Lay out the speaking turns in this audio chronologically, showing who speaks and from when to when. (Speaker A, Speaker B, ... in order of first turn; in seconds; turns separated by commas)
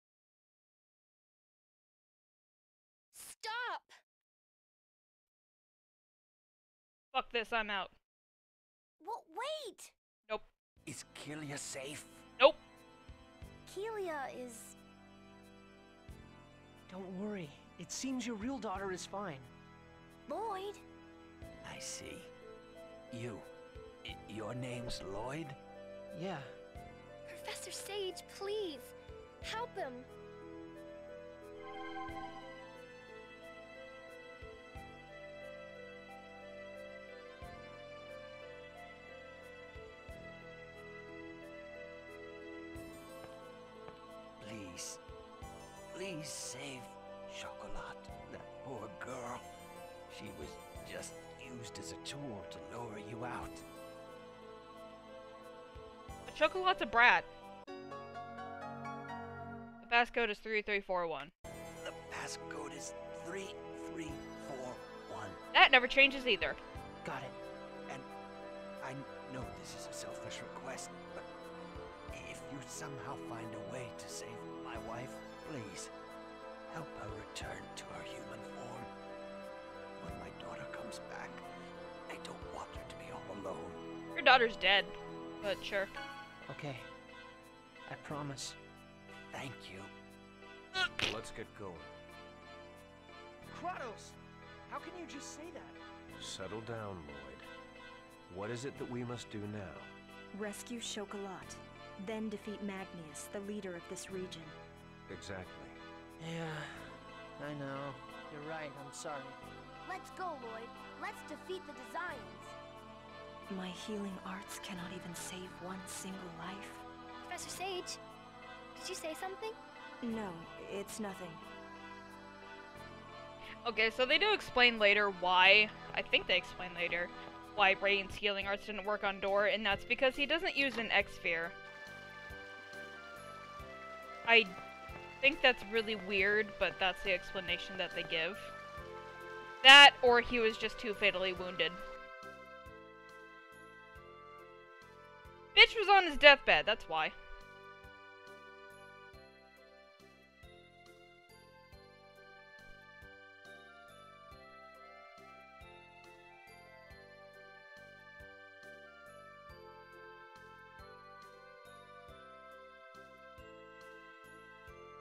Speaker A: 3.1-3.9, Speaker B: 7.1-7.9, Speaker C: 9.0-9.9, Speaker D: 10.9-12.2, Speaker C: 13.7-14.8, Speaker E: 16.9-19.5, Speaker C: 20.3-20.8, Speaker D: 21.6-22.3, Speaker D: 23.1-23.5, Speaker D: 24.1-25.6, Speaker E: 26.1-26.5, Speaker A: 27.3-30.1, Speaker D: 44.4-45.0, Speaker D: 45.9-49.5, Speaker D: 50.1-53.6, Speaker B: 56.3-57.3, Speaker B: 59.8-61.3, Speaker D: 61.8-65.4, Speaker B: 65.5-66.6, Speaker E: 67.0-67.4, Speaker D: 68.8-71.3, Speaker D: 72.1-75.9, Speaker D: 76.7-78.9, Speaker D: 80.0-81.5, Speaker D: 82.1-83.8, Speaker B: 84.2-85.9, Speaker E: 86.5-86.9, Speaker E: 87.9-88.6, Speaker D: 89.3-89.9, Speaker F: 91.0-91.9, Speaker E: 93.5-95.8, Speaker F: 96.2-97.5, Speaker F: 98.3-99.9, Speaker G: 100.3-104.6, Speaker F: 105.1-105.8, Speaker E: 106.2-109.4, Speaker C: 109.8-112.6, Speaker G: 113.5-116.8, Speaker A: 117.2-118.0, Speaker A: 118.8-119.6, Speaker G: 120.0-121.4, Speaker B: 123.7-131.6, Speaker B: 134.3-134.5, Speaker B: 135.2-138.5, Speaker B: 139.6-141.8, Speaker B: 145.6-147.1